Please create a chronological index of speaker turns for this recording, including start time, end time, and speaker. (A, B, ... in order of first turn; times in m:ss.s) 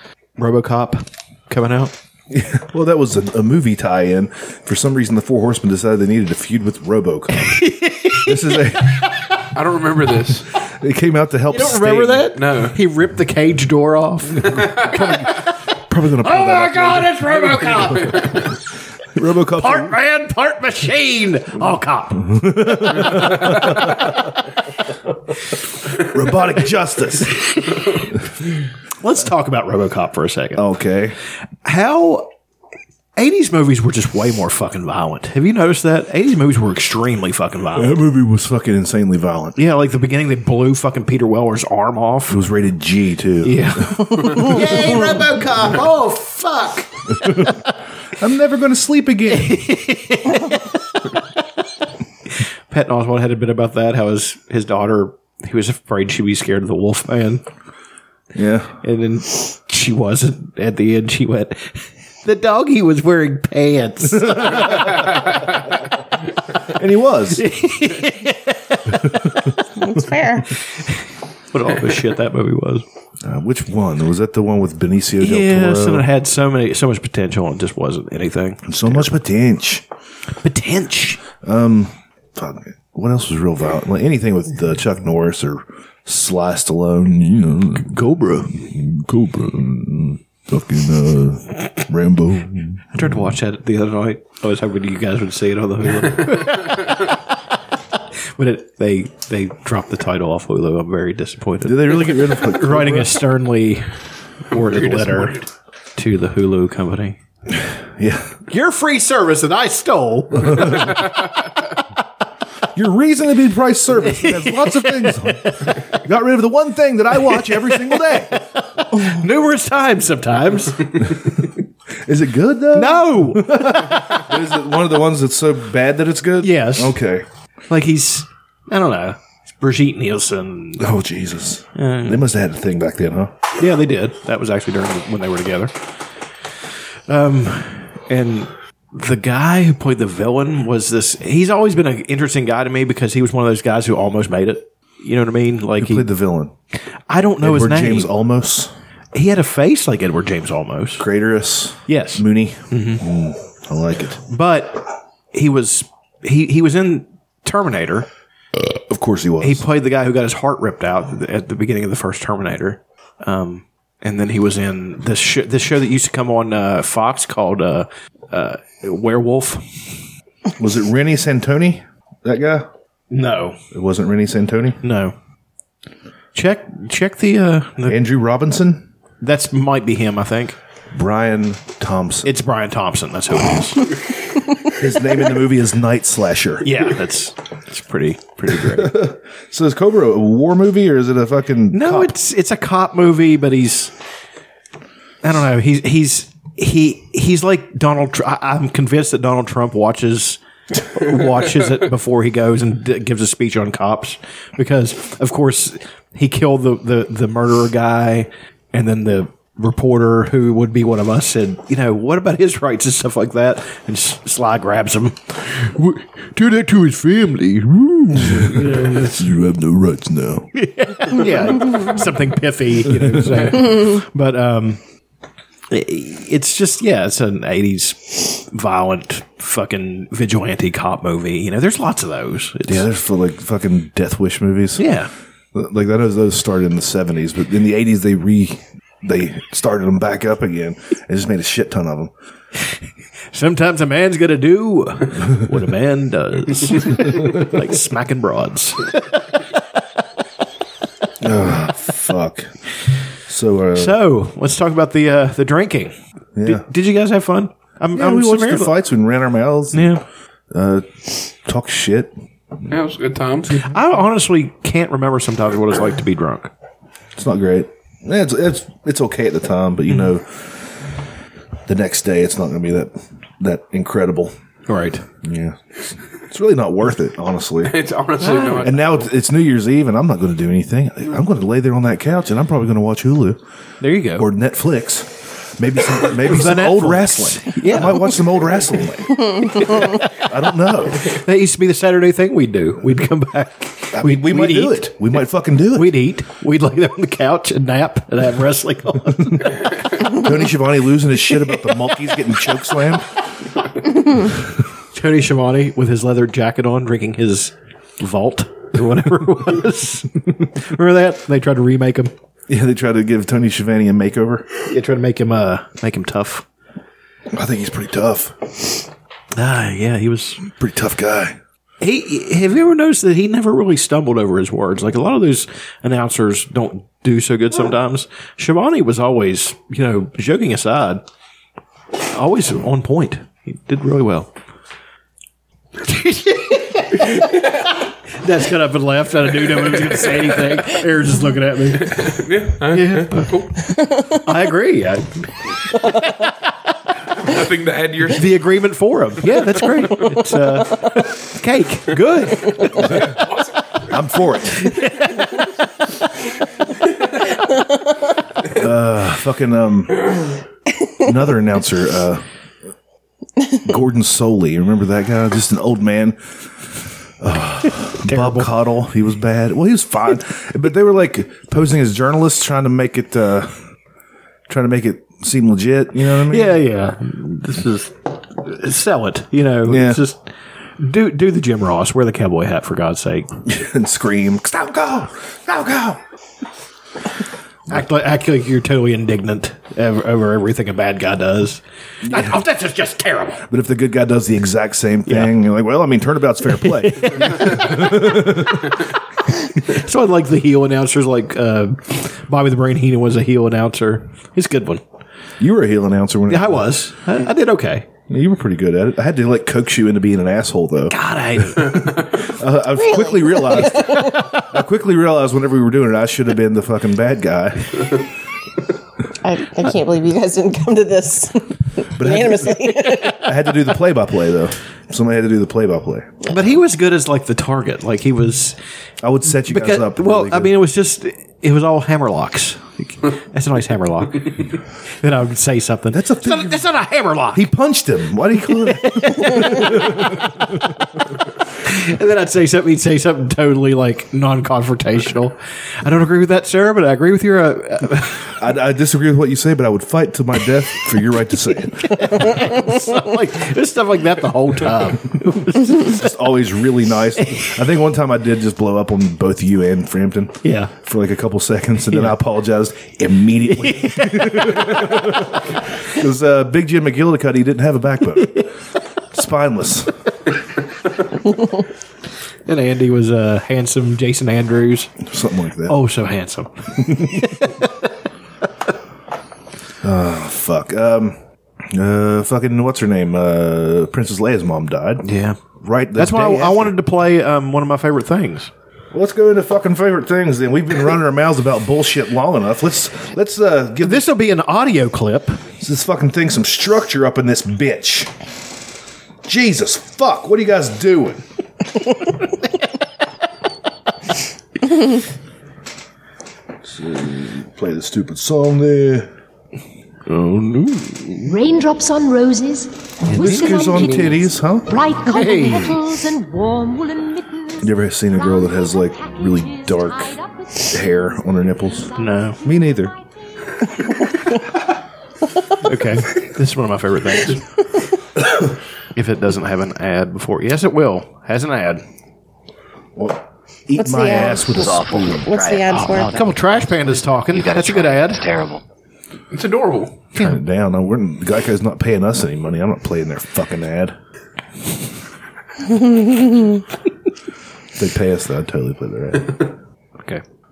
0:00.4-0:01.9 A
0:02.3-0:07.6 B
0:07.4-0:08.5 A
0:08.1-0:09.0 B
0:09.5-0:10.5 C
0:10.6-0:12.3 B
0:11.5-0:15.5 A
0:12.3-0:12.8 C
0:15.9-0:17.2 B
0:16.2-0:18.5 A
0:19.1-0:19.9 B
0:19.6-0:22.4 A
0:22.2-0:24.0 B
0:26.0-0:27.6 B
0:29.0-0:30.6 A
0:30.5-0:31.2 B
0:31.6-0:32.3 A
0:33.2-0:38.0 A
0:37.7-0:39.6 B
0:39.6-0:42.4 A
0:42.3-0:45.1 B
0:43.4-0:47.7 A
0:47.2-0:47.6 B
0:48.1-0:49.6 B
0:49.3-0:51.2 A
0:52.7-0:57.4 A
0:58.3-0:58.8 B
0:58.8-1:05.6 A
1:04.3-1:04.9 B
1:06.7-1:07.4 B
1:07.4-1:09.5 A
1:09.8-1:10.5 D
1:10.5-1:12.8 A
1:13.2-1:16.1 B
1:15.2-1:19.2 A
1:18.6-1:19.8 B
1:20.4-1:21.2 A
1:21.4-1:33.0 B
1:27.8-1:28.5 A
1:32.9-1:37.0 A
1:38.4-1:47.2 A
1:41.6-1:43.1 B
1:44.9-1:45.3 C
1:47.6-1:48.4 B
1:48.5-1:51.0 A
1:52.7-1:58.4 B
1:54.1-1:55.9 A
1:57.3-2:01.2 A
2:02.0-2:07.2 B
2:02.7-2:04.2 A
2:06.4-2:07.0 A
2:07.7-2:10.9 A
2:10.8-2:13.3 B
2:11.7-2:12.2 A
2:13.6-2:15.7 A
2:17.1-2:26.1 A
2:25.8-2:26.5 B
2:27.1-2:28.1 A
2:27.4-2:28.7 B
2:29.1-2:31.0 A
2:31.0-2:34.2 B
2:31.9-2:33.0 A
2:34.3-2:38.1 A
2:38.5-2:39.6 B
2:39.4-2:49.9 A
2:50.6-2:52.7 B
2:53.1-2:53.6 A
2:53.7-2:54.8 B
2:54.8-2:55.1 A
2:56.3-2:58.0 A
2:57.9-2:58.9 B
2:59.2-3:00.6 A
3:00.9-3:02.3 B
3:02.2-3:04.0 A
3:04.6-3:06.8 B
3:06.6-3:09.1 A
3:08.4-3:12.1 B
3:11.7-3:13.9 A
3:15.2-3:39.2 A
3:38.2-3:40.5 B
3:40.5-3:44.8 A
3:45.7-3:52.8 A
3:52.7-3:54.9 B
3:54.8-3:55.1 A
3:55.5-4:02.1 B
4:03.3-4:09.4 A
4:11.2-4:12.6 B
4:13.2-4:14.0 B
4:13.7-4:18.8 A
4:16.4-4:16.6 B
4:17.9-4:20.0 B
4:19.7-4:20.0 A
4:20.5-4:22.1 B
4:22.7-4:23.6 C
4:23.5-4:26.5 A
4:27.2-4:30.6 B
4:31.7-4:34.3 B
4:34.7-4:35.0 A
4:35.2-4:37.9 B
4:37.6-4:38.8 C
4:38.2-4:38.8 A
4:38.6-4:43.4 B
4:43.8-4:44.3 A
4:44.1-4:51.2 B
4:46.2-4:48.2 A
4:51.0-4:55.0 A
4:53.9-4:56.0 B
4:55.7-4:59.6 A
4:59.3-5:03.1 B
5:04.9-5:12.1 A
5:12.5-5:14.5 B
5:14.7-5:16.4 A
5:17.3-5:18.8 B
5:19.3-5:20.4 A
5:20.4-5:21.4 B
5:21.8-5:31.0 A
5:32.0-5:34.3 A
5:35.8-5:43.3 A
5:42.0-5:43.5 C
5:43.9-5:46.3 A
5:47.2-5:48.3 C
5:48.1-5:53.1 A
5:53.9-5:54.8 B
5:54.7-5:55.5 A
5:58.5-6:00.1 B
6:01.0-6:02.2 B
6:03.6-6:13.6 B
6:07.9-6:08.5 A
6:14.5-6:16.6 B
6:16.2-6:20.2 A
6:19.6-6:20.0 B
6:20.8-6:23.3 A
6:23.4-6:26.0 B
6:27.7-6:33.4 A
6:32.0-6:32.4 B
6:33.5-6:38.8 B
6:35.1-6:35.3 A
6:36.6-6:38.5 A
6:39.5-6:44.8 A
6:45.4-6:46.8 B
6:46.3-6:47.9 A
6:48.1-6:58.0 B
6:50.9-6:52.0 A
6:52.7-6:54.3 D
6:59.2-7:03.5 D
7:02.0-7:06.2 B
7:06.2-7:08.6 A
7:09.0-7:10.5 B
7:09.3-7:14.4 A
7:15.0-7:17.5 A
7:15.9-7:16.7 B
7:17.3-7:20.4 B
7:18.6-7:20.3 A
7:21.6-7:28.4 A
7:28.4-7:32.4 B
7:31.8-7:36.1 A
7:35.7-7:48.5 B
7:40.4-7:40.7 A
7:43.6-7:45.2 A
7:48.2-7:48.5 A
7:49.1-7:49.9 B
7:52.5-7:54.9 A
7:55.0-7:55.8 B
7:55.7-7:57.9 A
7:59.8-8:05.0 B
8:05.0-8:05.4 A
8:05.6-8:06.8 B
8:05.9-8:08.5 A
8:08.9-8:14.0 B
8:13.8-8:15.4 A
8:15.6-8:18.1 B
8:19.2-8:21.2 B
8:26.6-8:29.1 B
8:30.1-8:31.4 A
8:31.2-8:37.5 E
8:33.1-8:34.7 B
8:33.1-8:34.2 A
8:35.0-8:35.8 A
8:37.6-8:42.9 B
8:42.0-8:42.4 A
8:45.6-8:47.4 A
8:48.9-8:51.8 A
8:53.0-8:55.3 B
8:53.7-8:54.4 D
8:54.4-8:58.6 F
8:55.2-8:56.1 D
8:55.7-8:58.2 A
8:59.3-9:00.0 C
9:00.1-9:04.0 B
9:05.8-9:06.5 D
9:07.8-9:09.5 B